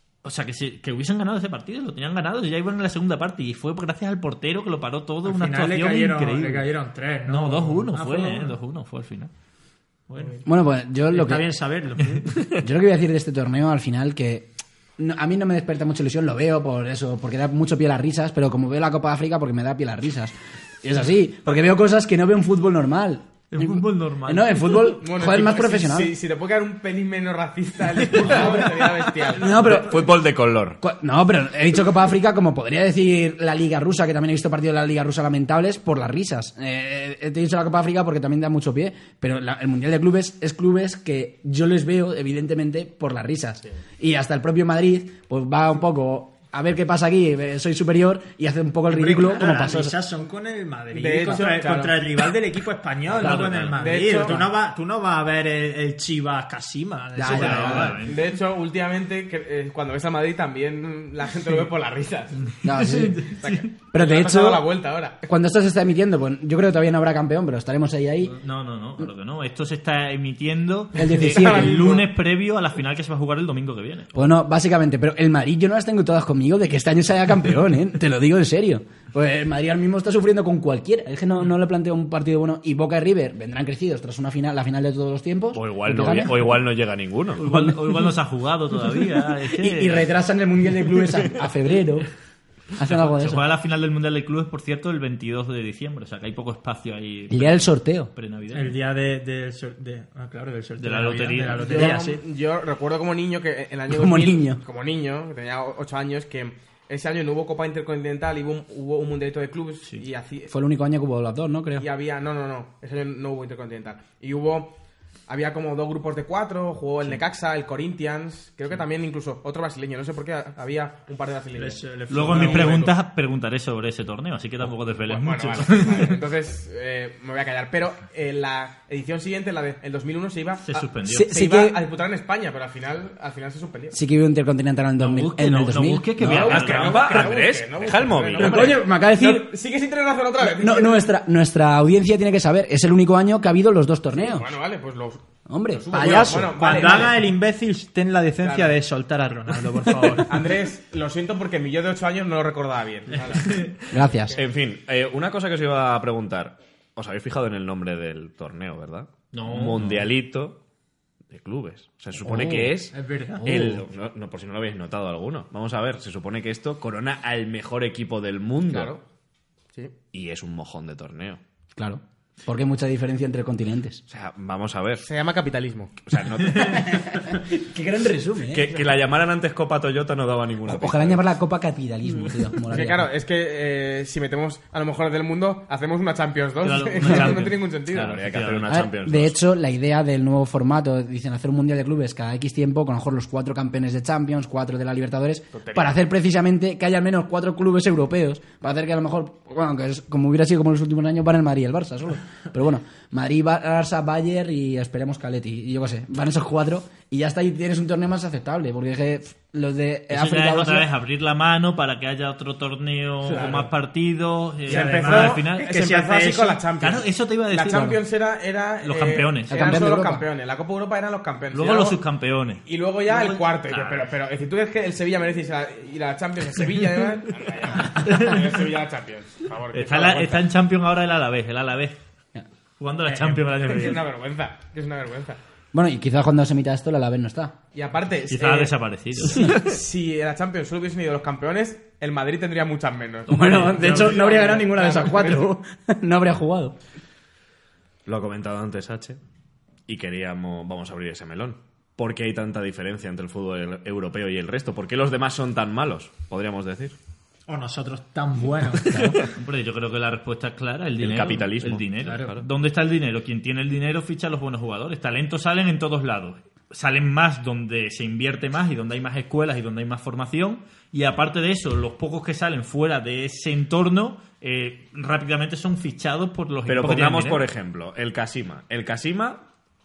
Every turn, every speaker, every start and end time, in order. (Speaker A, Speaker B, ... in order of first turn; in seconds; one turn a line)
Speaker A: 0.2-6.7
Speaker B: 5.2-8.5
Speaker A: 7.3-9.3
Speaker B: 10.1-10.4
Speaker C: 10.4-11.5
Speaker B: 11.1-12.2
Speaker C: 12.6-26.1
Speaker A: 23.5-24.8
Speaker D: 25.0-29.7
Speaker C: 28.2-28.6
Speaker C: 29.3-30.1
Speaker E: 29.6-30.8
Speaker C: 30.8-49.9
Speaker B: 48.9-58.0
Speaker D: 50.9-52.0
Speaker A: 53.1-54.4
Speaker D: 53.2-54.4
Speaker C: 57.1-58.0
Speaker A: 57.2-58.3
Speaker D: 57.6-62.6
Speaker C: 62.6-63.3
Speaker A: 62.7-63.7
Speaker D: 63.4-65.2
Speaker C: 63.9-64.7
Speaker C: 65.2-68.3
Speaker A: 68.2-74.1
Speaker C: 70.9-71.8
Speaker D: 71.2-72.1
Speaker C: 74.1-86.5
Speaker E: 85.5-87.5
Speaker A: 87.4-90.1
Speaker C: 87.5-88.1
Speaker C: 89.0-92.1
Speaker C: 92.8-93.4
Speaker A: 92.8-98.7
Speaker C: 97.3-98.1
Speaker B: 98.5-102.2
Speaker A: 100.8-101.8
Speaker D: 101.6-110.5
Speaker C: 101.7-102.0
Speaker C: 103.9-104.6
Speaker C: 110.5-111.8
Speaker D: 111.8-114.7
Speaker D: 115.3-122.9
Speaker B: 121.5-122.9
Speaker A: 122.1-126.2
Speaker D: 125.0-134.0
Speaker A: 130.6-131.3
Speaker C: 131.0-131.8
Speaker C: 133.9-136.5
Speaker A: 135.0-137.3
Speaker D: 136.2-141.0
Speaker E: 136.2-138.8
Speaker C: 138.3-139.5
Speaker C: 140.4-144.5
Speaker D: 144.1-147.3
Speaker C: 145.5-146.8
Speaker B: 145.9-150.4
Speaker D: 148.4-148.7
Speaker D: 150.2-153.7
Speaker A: 153.4-153.7
Speaker C: 153.9-154.3
Speaker E: 154.3-160.6
Speaker A: 159.3-160.1
Speaker E: 161.3-168.9
Speaker C: 162.2-162.7
Speaker B: 162.9-163.5
Speaker D: 168.7-169.0
Speaker E: 170.1-171.4
Speaker C: 171.8-174.0
Speaker E: 174.1-175.1
Speaker D: 175.0-176.0
Speaker E: 176.0-176.9
Speaker C: 176.6-178.8
Speaker E: 178.5-181.2
Speaker C: 180.7-183.1
Speaker D: 182.7-188.2
Speaker A: 186.6-188.8
Speaker C: 187.0-187.3
Speaker E: 188.0-189.4
Speaker C: 188.7-210.9
Speaker D: 195.5-196.0
Speaker A: 210.1-215.7
Speaker B: 213.2-213.5
Speaker D: 213.3-213.7
Speaker B: 214.7-216.6
Speaker D: 214.7-222.0
Speaker A: 216.8-218.0
Speaker C: 217.7-218.0
Speaker A: 218.8-219.8
Speaker C: 219.5-220.2
Speaker A: 221.5-224.1
Speaker D: 222.7-230.4
Speaker A: 228.0-228.6
Speaker A: 229.7-232.0
Speaker A: 232.8-234.0
Speaker D: 233.1-235.4
Speaker C: 235.7-237.6
Speaker D: 237.7-245.5
Speaker A: 238.3-239.5
Speaker A: 243.3-244.0
Speaker C: 243.3-246.8
Speaker E: 248.1-249.2
Speaker E: 249.9-256.9
Speaker B: 257.5-259.0
Speaker C: 258.9-259.1
Speaker E: 258.9-259.2
Speaker A: 259.2-277.4
Speaker E: 261.0-262.5
Speaker E: 276.7-279.4